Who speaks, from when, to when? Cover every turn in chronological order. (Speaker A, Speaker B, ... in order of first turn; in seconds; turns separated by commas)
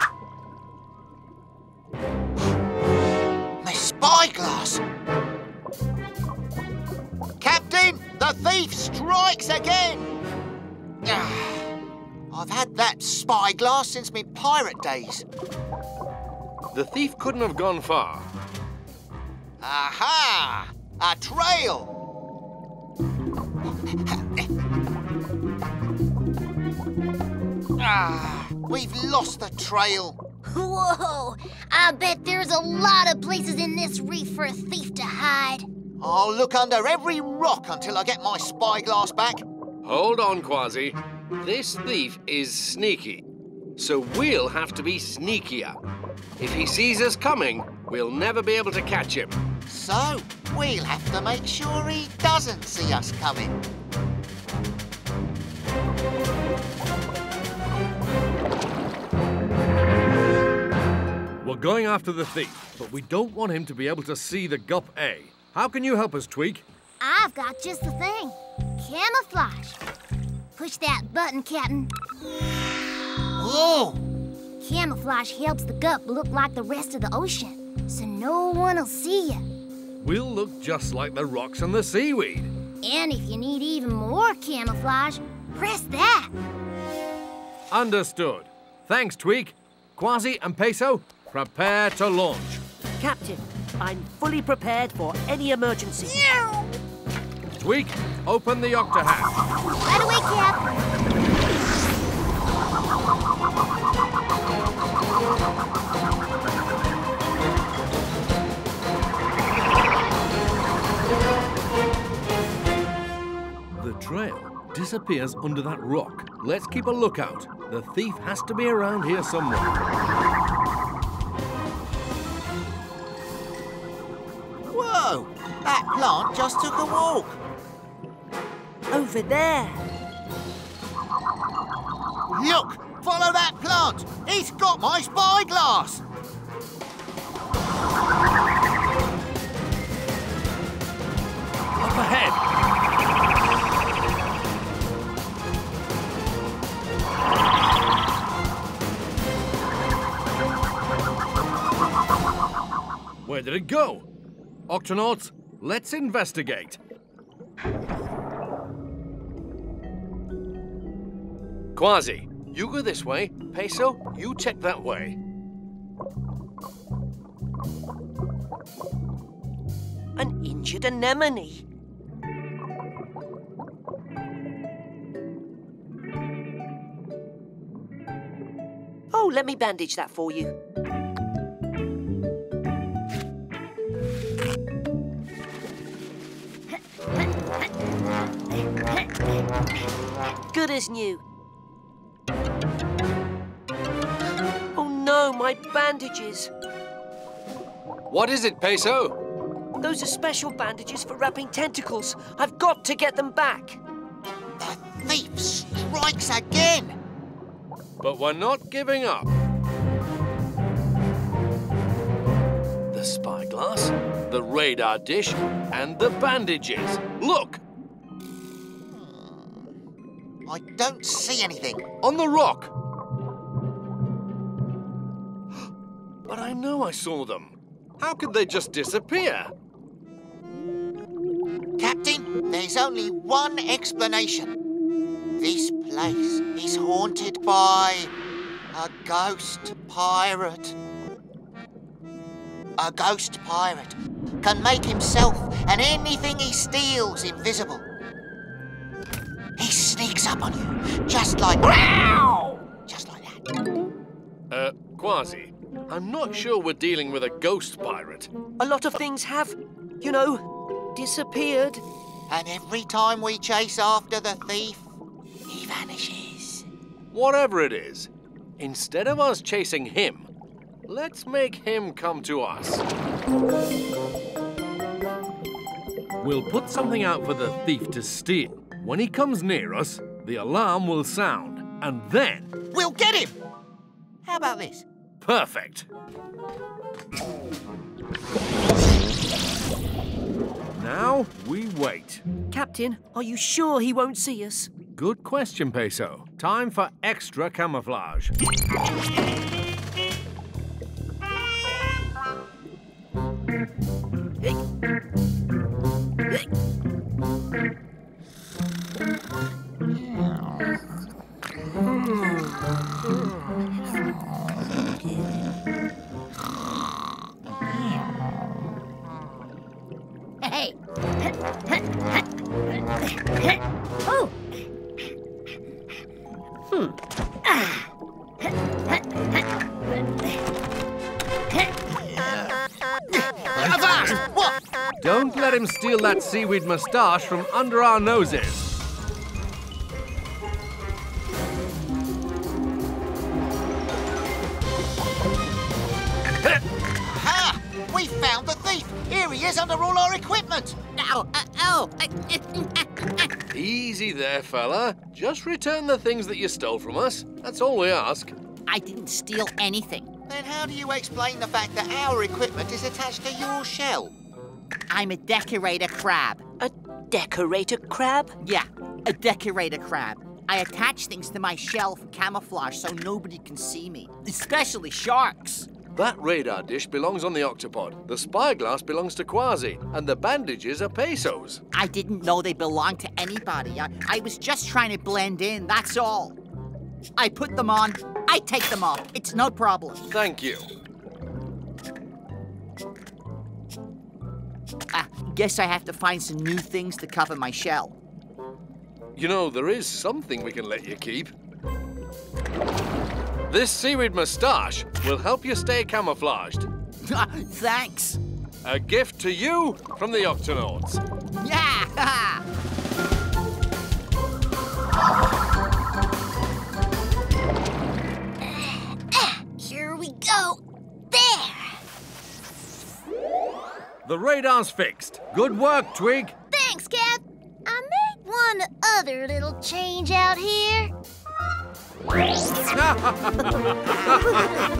Speaker A: 3.6-4.8, Speaker A: 7.4-10.2, Speaker A: 11.0-11.7, Speaker A: 12.3-15.2, Speaker B: 16.7-18.3, Speaker A: 19.6-21.9, Speaker A: 23.9-24.5, Speaker A: 27.8-30.2, Speaker C: 30.5-35.7, Speaker A: 36.0-39.4, Speaker B: 39.9-43.2, Speaker B: 43.8-45.8, Speaker B: 46.4-49.4, Speaker A: 49.7-53.6, Speaker B: 61.4-66.7, Speaker C: 67.0-69.8, Speaker C: 70.6-71.9, Speaker A: 73.4-74.0, Speaker C: 74.6-79.5, Speaker B: 80.0-82.5, Speaker C: 82.8-86.3, Speaker B: 87.7-92.6, Speaker D: 93.0-96.2, Speaker B: 97.6-99.3, Speaker C: 99.8-100.7, Speaker B: 113.8-119.8, Speaker A: 124.7-127.4, Speaker D: 128.9-129.8, Speaker A: 132.3-136.0, Speaker B: 141.8-142.4, Speaker B: 153.2-154.1, Speaker B: 154.7-156.8, Speaker B: 161.8-165.2, Speaker D: 170.2-171.6, Speaker D: 179.1-180.6, Speaker D: 190.5-191.2, Speaker D: 194.8-196.5, Speaker B: 198.1-199.2, Speaker D: 199.8-203.8, Speaker A: 204.6-207.0, Speaker B: 208.0-209.3, Speaker B: 212.9-217.6, Speaker A: 218.9-219.6, Speaker A: 220.5-221.8, Speaker B: 222.0-222.7, Speaker B: 226.3-229.5, Speaker A: 231.8-234.5, Speaker A: 235.4-238.1, Speaker A: 238.7-240.8, Speaker A: 242.8-247.8, Speaker A: 249.6-253.5, Speaker B: 254.5-258.3, Speaker D: 258.6-261.8, Speaker A: 262.3-264.9, Speaker A: 265.5-266.7, Speaker B: 267.1-270.3, Speaker B: 270.9-272.8, Speaker B: 276.2-282.5, Speaker A: 282.7-283.4, Speaker A: 284.2-284.9, Speaker B: 285.2-285.9, Speaker B: 290.8-292.2, Speaker D: 292.5-294.7, Speaker B: 295.0-298.3, Speaker E: 320.5-320.7, Speaker A: 332.1-332.5, Speaker A: 333.1-334.6, Speaker B: 335.0-338.7, Speaker A: 347.0-351.1, Speaker E: 351.0-353.1, Speaker A: 352.0-352.3, Speaker B: 353.5-358.3, Speaker E: 358.7-360.1, Speaker A: 360.3-364.1, Speaker E: 364.9-366.4, Speaker D: 366.6-368.4, Speaker E: 368.4-375.7, Speaker B: 375.9-381.6, Speaker E: 381.7-386.4, Speaker E: 387.2-390.1, Speaker B: 390.1-390.7, Speaker E: 394.9-397.9, Speaker B: 399.2-401.3, Speaker B: 403.5-406.7, Speaker E: 407.0-408.2, Speaker B: 408.6-411.0, Speaker E: 411.4-412.4, Speaker C: 418.4-421.8, Speaker B: 424.1-426.4, Speaker C: 426.5-430.9, Speaker B: 432.7-434.4